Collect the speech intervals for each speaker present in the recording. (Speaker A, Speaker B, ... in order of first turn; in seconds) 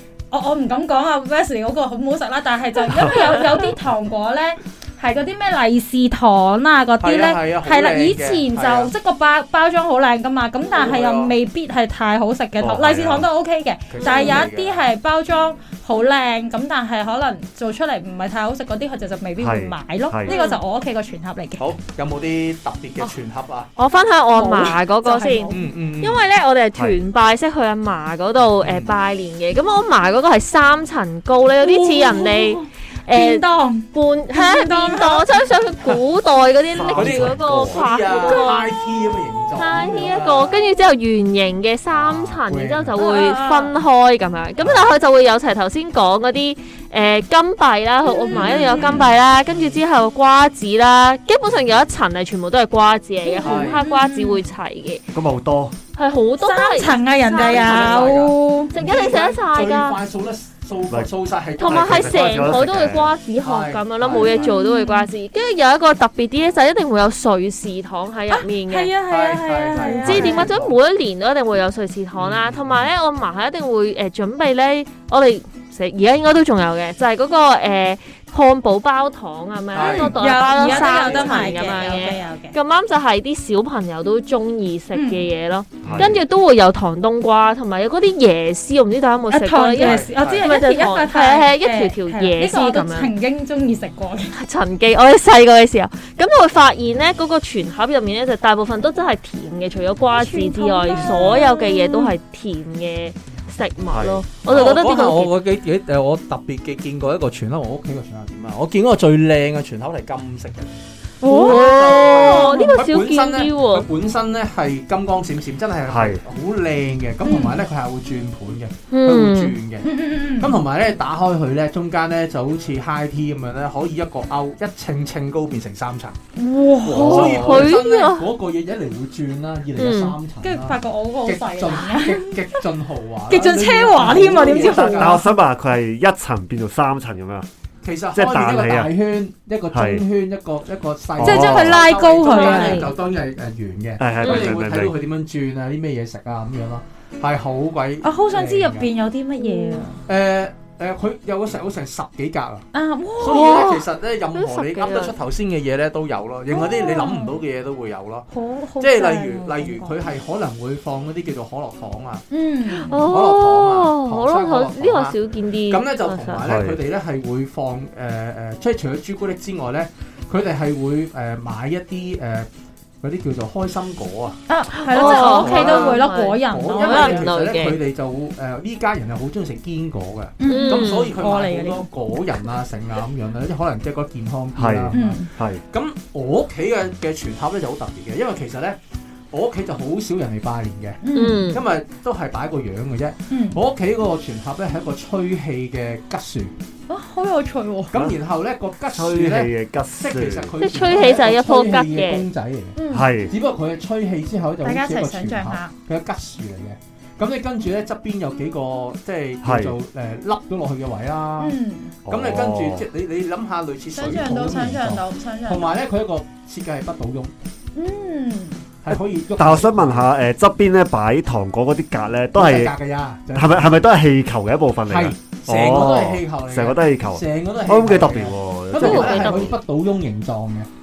Speaker A: 0.3-21.6, 24.4-25.7, 31.6-35.4, 43.0-43.7, 48.0-49.1, 53.2-54.4, 56.4-58.7, 64.1-65.1, 68.3-70.5, 79.8-82.5, 84.9-85.3, 89.3-94.3, 100.2-102.1, 111.2-112.8, 117.2-117.6, 119.8-120.6, 126.4-127.8, 130.4-132.4, 133.3-135.3, 141.2-142.9, 148.0-150.0, 152.7-153.7, 156.5-157.4, 158.3-160.0, 162.3-163.0, 174.5-177.3, 180.4-181.9, 184.9-185.3, 191.0-191.5, 193.3-193.6, 196.9-198.0, 202.8-203.1, 204.6-205.7, 211.4-211.9, 213.9-215.8, 217.8-218.6
Speaker B: 7.0-8.9, 10.8-11.3, 13.9-14.9, 21.6-23.7, 25.5-26.2, 28.6-28.9, 36.9-40.6, 41.9-43.0, 44.6-44.9, 48.3-49.8, 53.4-53.8, 57.3-62.6, 63.4-64.5, 69.1-70.8, 72.2-72.9, 79.7-81.7, 85.8-86.2, 89.8-90.5, 101.0-101.3, 104.5-110.7, 111.2-126.2, 126.8-135.2, 137.8-148.9, 150.1-152.7, 153.2-158.3, 158.8-162.2, 163.0-165.2, 165.7-172.5, 173.0-174.4, 174.9-188.8, 189.3-196.6, 197.9-202.8, 203.3-217.3, 218.8-220.1, 222.3-223.8, 224.9-230.7
Speaker C: 12.6-13.3, 19.4-20.4, 36.7-37.8, 55.1-55.8, 61.6-63.1, 70.0-70.5, 85.8-86.2, 103.9-104.6, 115.9-116.2, 134.7-137.5, 138.1-138.9, 139.7-140.1, 141.2-141.8, 144.0-144.9, 166.4-166.8, 184.6-185.6, 198.9-200.6, 202.9-203.3, 209.4-209.8, 212.1-212.9, 219.4-222.7, 223.3-229.6
Speaker D: 14.0-14.4, 20.3-20.6, 23.8-38.8, 39.5-55.0, 56.0-58.2, 58.7-60.0, 61.6-68.9, 70.0-93.1, 94.3-105.3, 111.2-113.9, 118.9-119.6, 126.8-128.3, 129.8-130.2, 142.4-142.8, 144.2-144.6, 149.4-149.9, 153.3-155.2, 162.8-166.4, 174.8-177.8, 180.4-181.2, 191.1-191.6, 200.6-202.3, 228.7-229.5